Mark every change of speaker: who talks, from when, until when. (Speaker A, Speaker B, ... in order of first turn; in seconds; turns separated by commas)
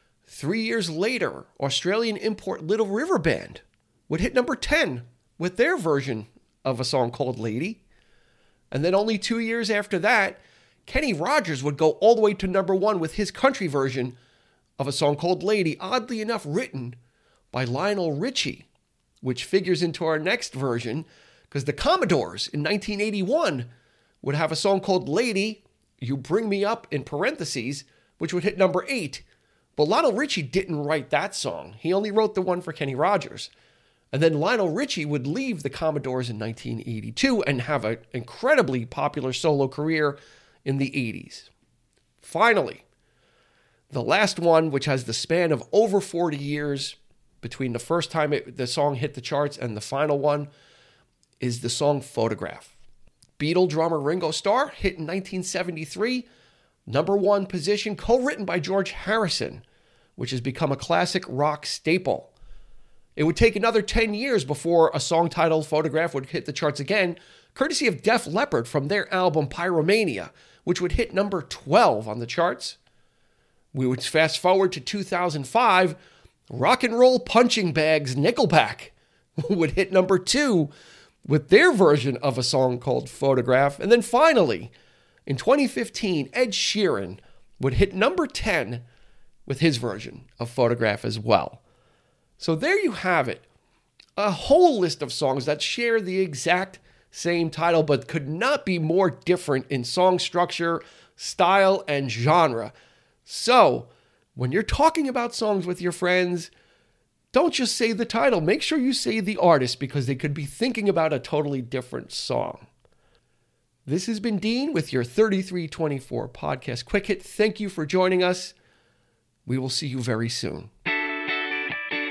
Speaker A: 0.3-7.8, Speaker A: 8.7-14.2, Speaker A: 14.8-17.0, Speaker A: 17.5-18.7, Speaker A: 19.2-23.7, Speaker A: 24.2-29.2, Speaker A: 29.8-33.5, Speaker A: 34.1-41.5, Speaker A: 42.2-42.9, Speaker A: 43.9-50.5, Speaker A: 51.4-52.7, Speaker A: 53.4-56.3, Speaker A: 56.9-59.6, Speaker A: 60.2-62.3, Speaker A: 63.2-72.8, Speaker A: 73.7-76.0, Speaker A: 76.5-80.7, Speaker A: 81.2-84.7, Speaker A: 85.3-88.8, Speaker A: 89.5-91.6, Speaker A: 92.4-93.5, Speaker A: 94.2-102.7, Speaker A: 103.2-106.5, Speaker A: 107.3-112.7, Speaker A: 113.9-118.5, Speaker A: 119.5-120.7